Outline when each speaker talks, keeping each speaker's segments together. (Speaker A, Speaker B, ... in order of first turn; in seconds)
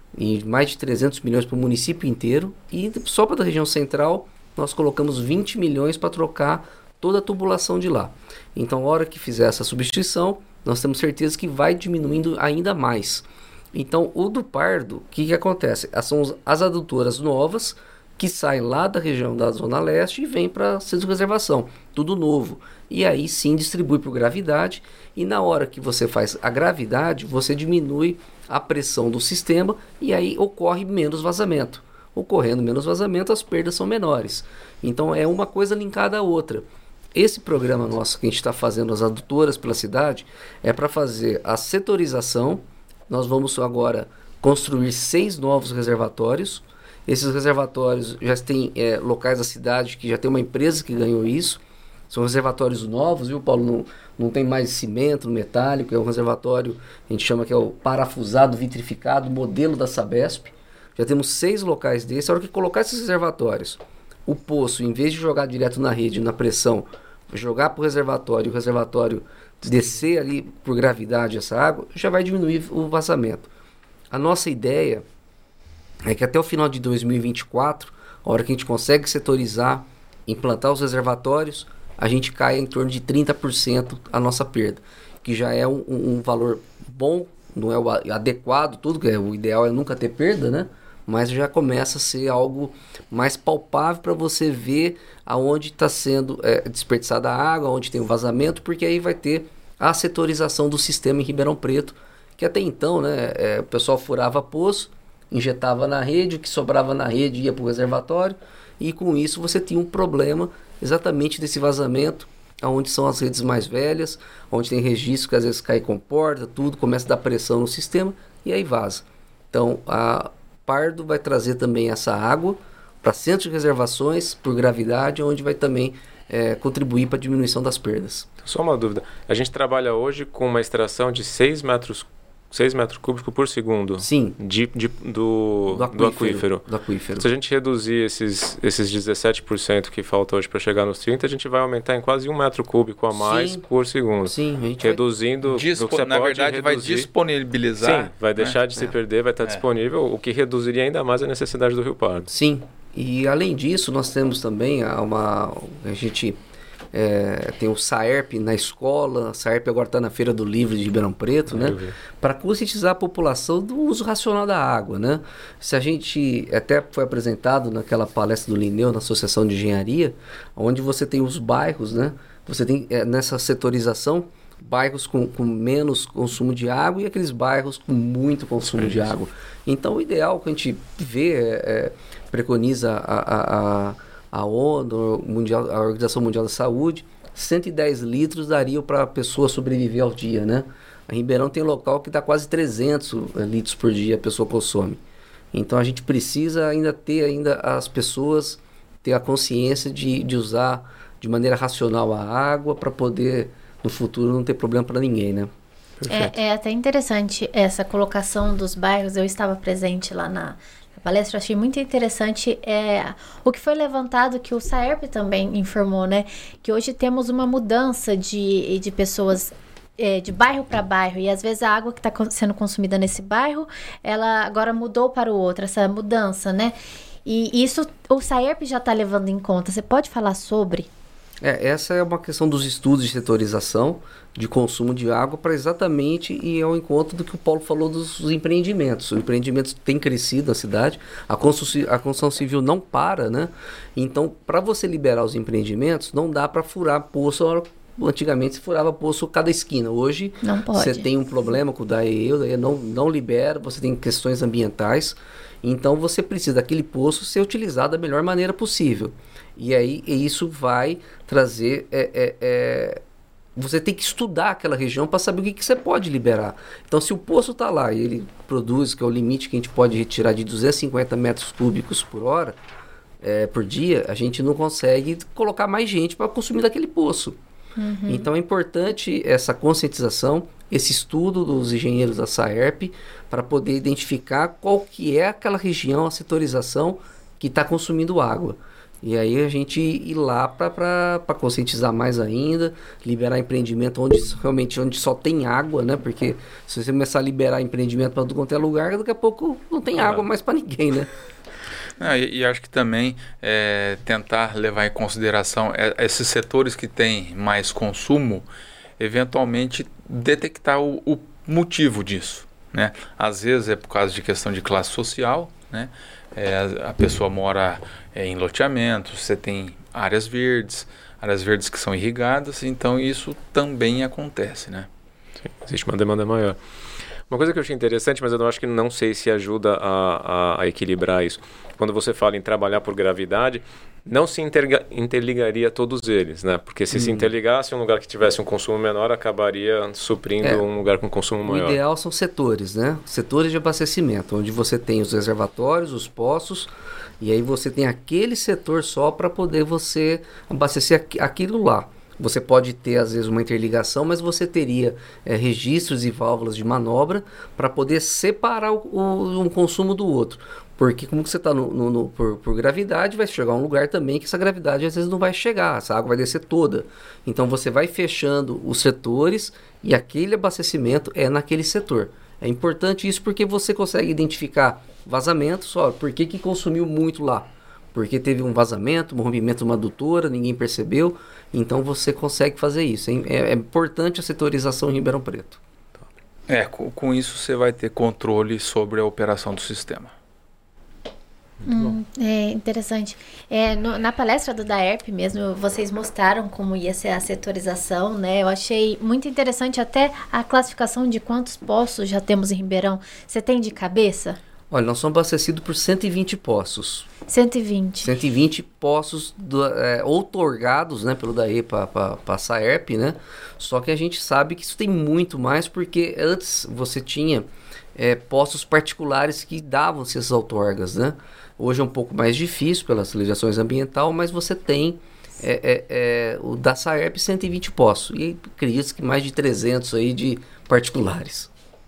Speaker A: 0.1-73.5, 74.1-75.0, 76.0-128.3, 134.0-134.4, 135.7-137.3, 143.1-143.6, 144.2-145.0, 152.3-156.4, 156.9-205.5, 231.4-263.0, 263.6-272.6, 273.2-277.4, 278.1-301.1, 336.9-337.3, 341.4-385.6, 404.7-407.1, 408.0-431.5
Speaker B: 128.4-136.6, 137.2-147.1, 147.8-152.3, 161.5-161.9, 206.0-206.3, 325.4-326.6, 327.3-341.8
Speaker C: 145.4-148.6, 300.0-300.2, 302.0-308.5, 309.0-324.9, 386.5-390.1
Speaker D: 206.1-230.9, 250.4-251.1, 277.8-278.3, 391.6-404.4, 407.3-408.1